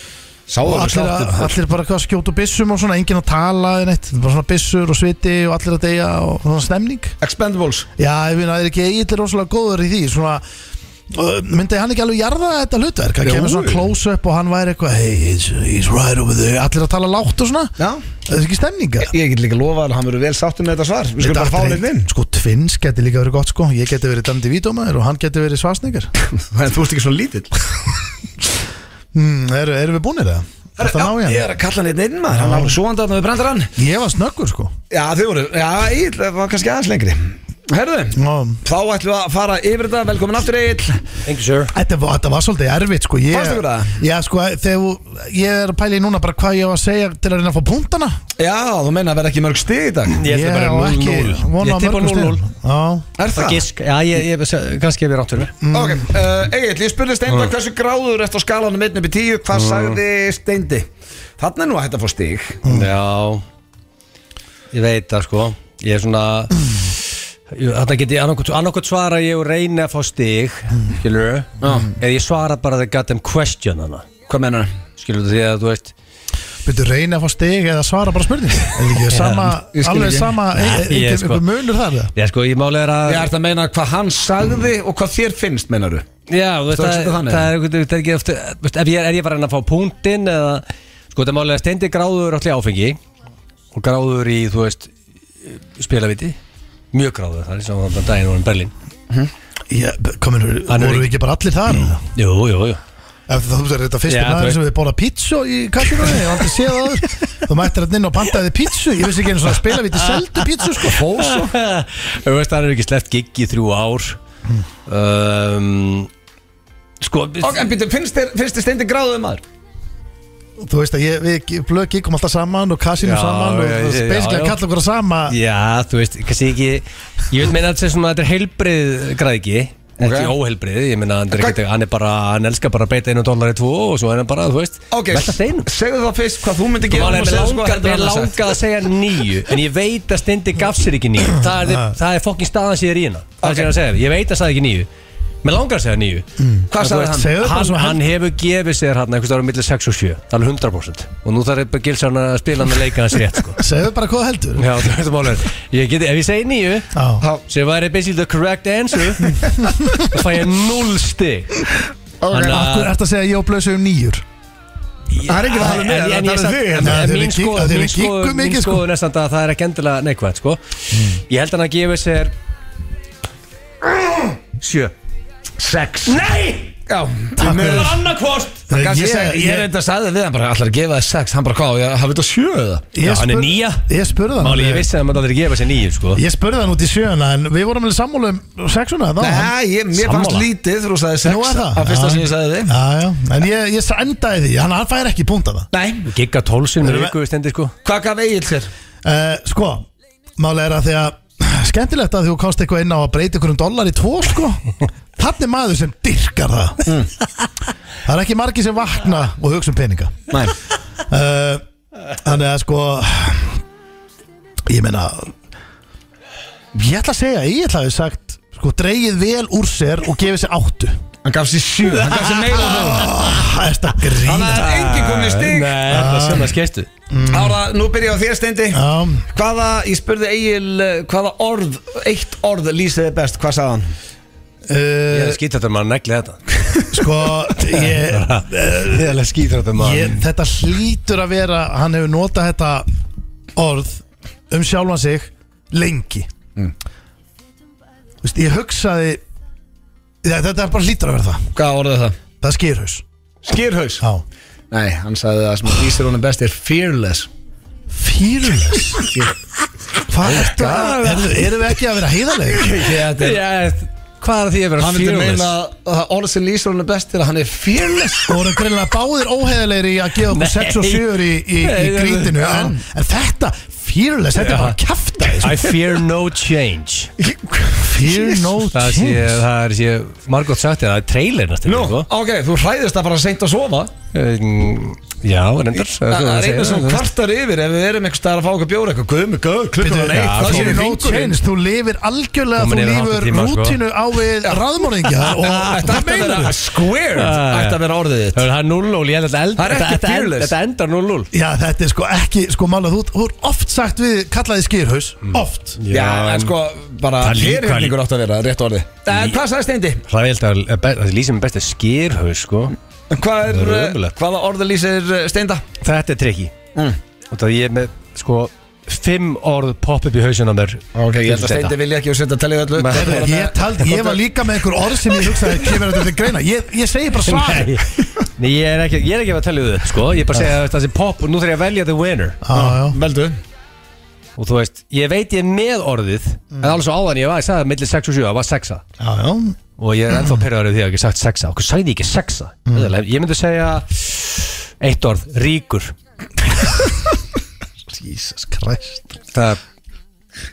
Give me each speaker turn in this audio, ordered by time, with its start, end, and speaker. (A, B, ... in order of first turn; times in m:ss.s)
0:00.5-0:01.6 A
0:00.6-0:07.1 B
0:07.2-0:07.9 A
0:08.0-0:10.4 B
0:11.1-0:17.7 B
0:13.2-0:13.9 A
0:18.3-0:19.1 B
0:19.0-0:22.1 A
0:21.2-0:26.1 B
0:26.3-0:27.9 A
0:29.1-0:31.4 B
0:30.8-0:33.7 A
0:32.3-0:32.8 B
0:33.8-0:34.7 B
0:34.9-0:41.0 A
0:38.1-0:38.6 B
0:41.2-0:41.7 C
0:41.7-0:48.2 B
0:43.3-0:44.0 A
0:48.4-0:50.2 A
0:50.1-0:52.4 C
0:50.2-0:53.0 B
0:53.2-0:53.6 A
0:53.3-0:55.5 C
0:55.6-0:56.1 B
0:55.7-1:00.9 A
0:59.5-1:00.0 C
1:01.4-1:02.6 A
1:02.6-1:03.4 C
1:04.7-1:06.5 C
1:07.5-1:14.0 C
1:11.6-1:11.9 A
1:14.3-1:14.7 A
1:15.0-1:15.9 C
1:16.6-1:22.1 B
1:19.0-1:19.5 C
1:19.7-1:20.3 A
1:20.6-1:21.4 C
1:22.1-1:23.3 C
1:23.1-1:26.0 A
1:26.3-1:33.0 C
1:26.7-1:27.5 A
1:33.7-1:34.9 C
1:35.4-1:36.4 C
1:36.9-1:38.7 C
1:39.7-1:42.0 B
1:40.7-1:41.1 C
1:42.1-1:42.8 C
1:43.3-1:51.0 B
1:44.1-1:44.6 C
1:50.0-1:50.4 C
1:50.8-1:51.5 A
1:51.1-1:54.2 C
1:54.8-1:56.1 C
1:57.0-1:57.6 C
1:57.4-1:59.4 A
2:00.6-2:05.4 B
2:03.0-2:04.6 C
2:05.3-2:15.7 C
2:10.0-2:10.3 A
2:11.3-2:11.6 A
2:14.9-2:18.6 A
2:16.9-2:24.9 C
2:21.6-2:21.9 B
2:23.4-2:23.7 A
2:25.4-2:26.2 C
2:26.4-2:28.0 B
2:26.7-2:27.3 A
2:26.8-2:33.6 C
2:33.6-2:34.9 B
2:34.6-2:36.9 C
2:36.9-2:37.2 B
2:37.5-2:41.7 C
2:42.2-2:42.6 A
2:42.3-2:42.9 C
2:42.4-2:44.2 B
2:45.1-2:50.6 C
2:45.2-2:47.0 A
2:46.8-2:48.8 B
2:50.9-2:51.2 B
2:51.3-2:52.3 C
2:54.6-2:54.9 C
2:55.6-2:56.2 A
2:56.0-2:56.7 C
2:56.9-3:02.8 A
2:57.4-2:58.0 B
2:57.6-2:58.6 C
2:58.7-2:59.7 B
3:02.9-3:04.9 B
3:03.0-3:03.8 C
3:04.4-3:06.2 C
3:06.1-3:09.5 B
3:09.2-3:12.7 A
3:10.0-3:10.5 C
3:11.2-3:15.7 B
3:15.7-3:16.1 A
3:16.0-3:17.7 C
3:16.8-3:17.1 B
3:17.8-3:18.7 A
3:19.0-3:19.8 B
3:20.4-3:26.9 B
3:28.0-3:30.3 B
3:30.3-3:30.5 A
3:31.1-3:31.6 B
3:32.1-3:33.6 B
3:34.6-3:35.3 B
3:36.7-3:41.0 B
3:41.2-3:43.1 A
3:42.5-3:44.7 B
3:44.2-3:46.2 A
3:44.4-3:46.9 C
3:45.9-3:46.6 B
3:47.1-3:47.6 B
3:47.3-3:53.9 A
3:48.7-3:49.2 B
3:54.7-3:55.4 B
3:55.1-3:56.4 C
3:56.9-3:59.2 B
3:57.7-4:00.2 C
3:59.8-4:02.9 B
4:03.5-4:06.3 B
4:08.2-4:09.2 B
4:10.2-4:11.5 B
4:11.5-4:12.2 A
4:12.4-4:13.0 B
4:13.4-4:14.0 A
4:14.7-4:17.3 A
4:17.9-4:19.0 B
4:19.0-4:19.3 A
4:20.1-4:22.8 B
4:20.2-4:21.2 A
4:22.5-4:23.4 A
4:22.8-4:25.5 C
4:24.8-4:28.4 A
4:28.3-4:35.7 B
4:30.3-4:32.6 C
4:34.4-4:34.8 C
4:35.4-4:37.1 C
4:37.2-4:38.6 A
4:37.8-4:39.4 B
4:38.7-4:42.1 C
4:41.6-4:43.9 A
4:44.1-4:47.0 C
4:46.1-4:51.4 A
4:49.8-4:56.6 B
4:50.1-4:50.9 C
4:52.6-4:53.8 C
4:55.2-4:56.4 C
4:55.4-4:58.4 A
4:57.1-4:57.8 C
4:58.3-5:01.3 C
4:59.6-5:00.5 A
5:01.3-5:05.8 B
5:05.3-5:06.5 C
5:05.9-5:10.0 A
5:07.2-5:07.9 C
5:09.1-5:09.4 C
5:10.1-5:12.7 C
5:13.1-5:15.6 A
5:13.5-5:14.1 C
5:15.8-5:16.5 C
5:17.3-5:21.7 C
5:20.9-5:24.2 A
5:22.8-5:23.2 C
5:22.9-5:27.8 B
5:27.2-5:32.4 C
5:32.4-5:33.0 B
5:32.5-5:33.4 A
5:34.4-5:38.8 C
5:39.0-5:39.6 B
5:39.8-5:45.9 C
5:40.1-5:40.4 B
5:42.7-5:42.9 B
5:48.0-5:49.0 B
5:49.3-5:49.6 C